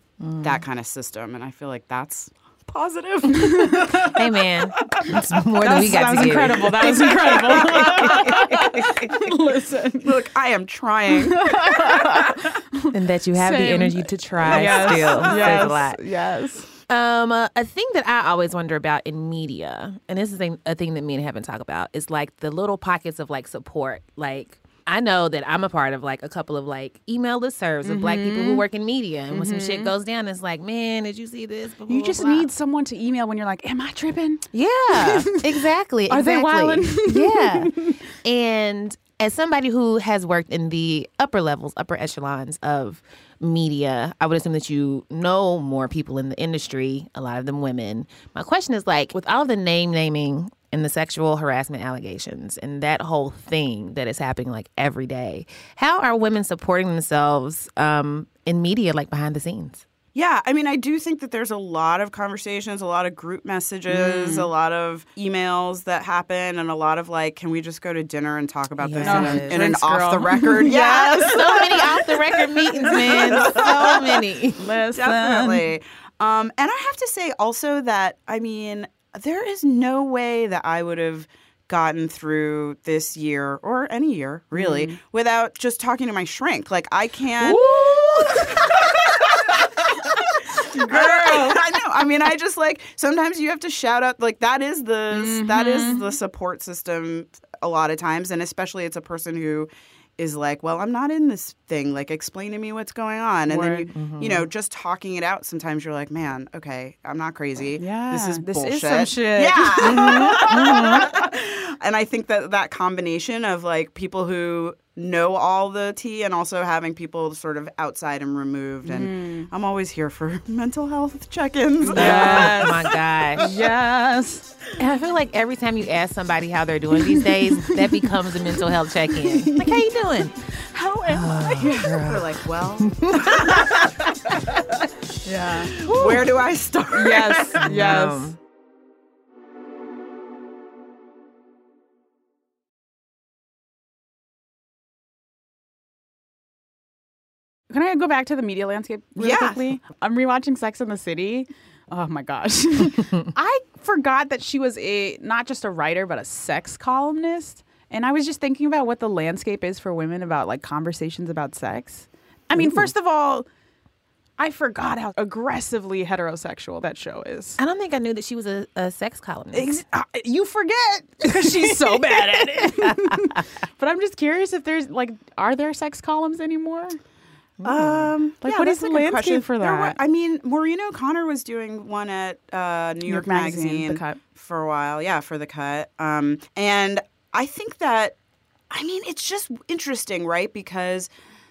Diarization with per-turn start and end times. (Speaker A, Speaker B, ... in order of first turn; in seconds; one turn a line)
Speaker A: 0.2-0.6
Speaker B: 0.4-4.2
Speaker C: 3.3-4.2
Speaker A: 3.8-9.1
Speaker C: 5.6-10.1
Speaker B: 7.1-8.3
Speaker B: 10.0-12.2
Speaker C: 11.1-16.7
Speaker A: 12.9-16.0
Speaker B: 14.5-15.7
Speaker A: 16.9-32.5
Speaker C: 27.8-28.6
Speaker C: 29.3-29.9
Speaker C: 31.9-38.0
Speaker A: 34.5-59.8
Speaker B: 60.1-72.2
Speaker C: 63.9-64.5
Speaker A: 68.8-69.6
Speaker C: 69.0-71.8
Speaker A: 70.7-74.7
Speaker B: 72.8-74.2
Speaker C: 72.8-73.7
Speaker C: 74.6-75.7
Speaker B: 74.9-122.9
Speaker C: 84.5-85.0
Speaker C: 87.4-89.2
Speaker C: 90.5-91.6
Speaker C: 95.1-96.1
Speaker C: 103.5-103.9
Speaker A: 103.9-104.5
Speaker C: 107.8-111.0
Speaker A: 109.8-111.1
Speaker C: 118.8-119.5
Speaker C: 121.8-124.5
Speaker A: 121.9-123.5
Speaker A: 124.8-130.4
Speaker C: 127.1-128.6
Speaker C: 129.1-129.9
Speaker C: 130.6-131.7
Speaker A: 131.1-133.9
Speaker B: 131.6-134.6
Speaker C: 135.2-136.2
Speaker B: 135.7-137.7
Speaker C: 136.9-138.3
Speaker A: 137.6-138.4
Speaker C: 147.7-163.4
Speaker B: 149.2-149.7
Speaker C: 164.4-167.6
Speaker A: 167.6-169.7
Speaker C: 169.5-177.0
Speaker A: 171.4-173.2
Speaker A: 177.6-178.1
Speaker B: 177.6-188.1
Speaker C: 178.4-180.0
Speaker C: 183.1-184.2
Speaker B: 188.7-191.1